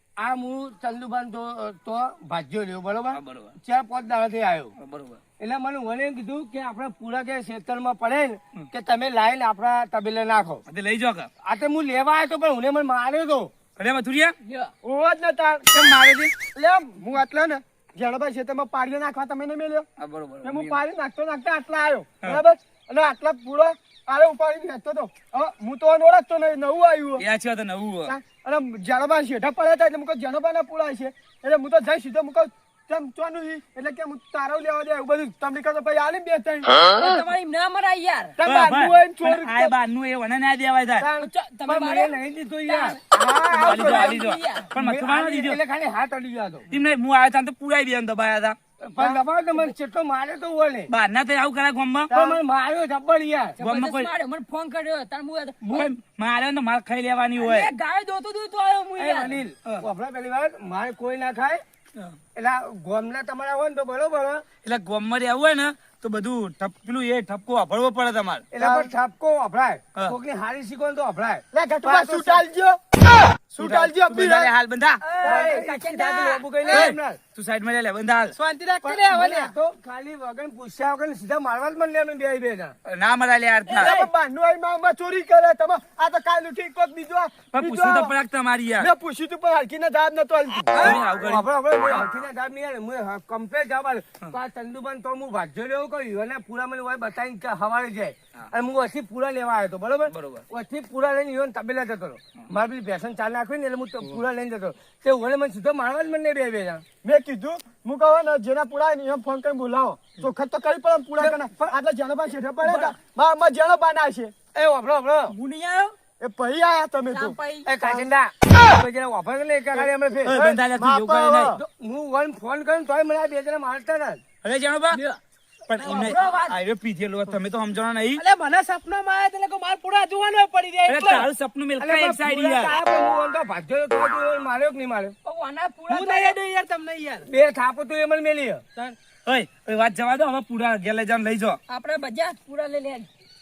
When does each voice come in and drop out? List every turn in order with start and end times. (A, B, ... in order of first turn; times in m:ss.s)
0:00.2-0:04.7 A
0:03.1-0:03.6 B
0:04.8-0:05.2 B
0:05.4-0:10.6 A
0:10.7-0:11.3 B
0:11.4-0:13.5 A
0:13.8-0:14.3 B
0:14.4-0:14.7 C
0:14.8-0:15.9 D
0:15.7-0:16.3 B
0:16.6-0:19.9 D
0:20.0-0:20.8 B
0:20.4-0:27.2 D
0:27.2-0:28.2 B
0:28.0-0:36.7 D
0:36.9-0:38.4 C
0:38.4-0:39.7 D
0:38.4-0:41.1 B
0:41.0-0:41.3 D
0:41.2-0:43.0 C
0:41.7-0:44.0 A
0:43.1-0:44.2 D
0:43.6-0:44.7 C
0:43.7-0:45.6 B
0:44.8-0:46.7 A
0:46.7-0:48.6 B
0:48.8-0:50.9 A
0:50.9-0:52.1 B
0:52.1-0:52.4 D
0:52.1-0:53.6 A
0:53.6-0:55.9 C
0:53.6-0:54.1 B
0:55.7-0:57.7 B
0:57.4-0:59.4 C
0:59.0-1:01.6 A
1:02.4-1:04.4 A
1:04.6-1:08.5 B
1:08.5-1:12.4 A
1:08.6-1:08.9 D
1:11.5-1:12.8 D
1:13.5-1:14.5 D
1:13.6-1:15.2 B
1:15.0-1:16.5 C
1:15.2-1:17.2 A
1:16.7-1:18.4 B
1:18.3-1:19.5 E
1:18.8-1:22.8 A
1:22.8-1:24.0 B
1:23.7-1:28.1 D
1:23.8-1:24.1 E
1:27.5-1:28.9 B
1:28.8-1:31.0 D
1:30.7-1:46.8 A
1:30.8-1:32.1 B
1:40.1-1:40.5 B
1:47.0-1:54.3 D
1:51.2-1:51.7 A
1:52.6-1:53.0 A
1:54.6-1:55.4 A
1:55.3-1:56.0 C
1:56.2-1:58.1 D
1:57.1-1:57.7 C
1:57.7-2:00.4 A
1:59.8-2:01.6 D
2:00.2-2:01.6 B
2:01.6-2:04.2 A
2:04.4-2:05.0 B
2:04.9-2:05.2 C
2:05.7-2:08.2 B
2:05.8-2:06.6 C
2:08.2-2:11.3 E
2:10.9-2:12.8 B
2:11.8-2:15.2 A
2:15.2-2:16.4 C
2:15.9-2:17.3 E
2:17.3-2:18.6 A
2:19.3-2:21.6 B
2:21.7-2:23.1 C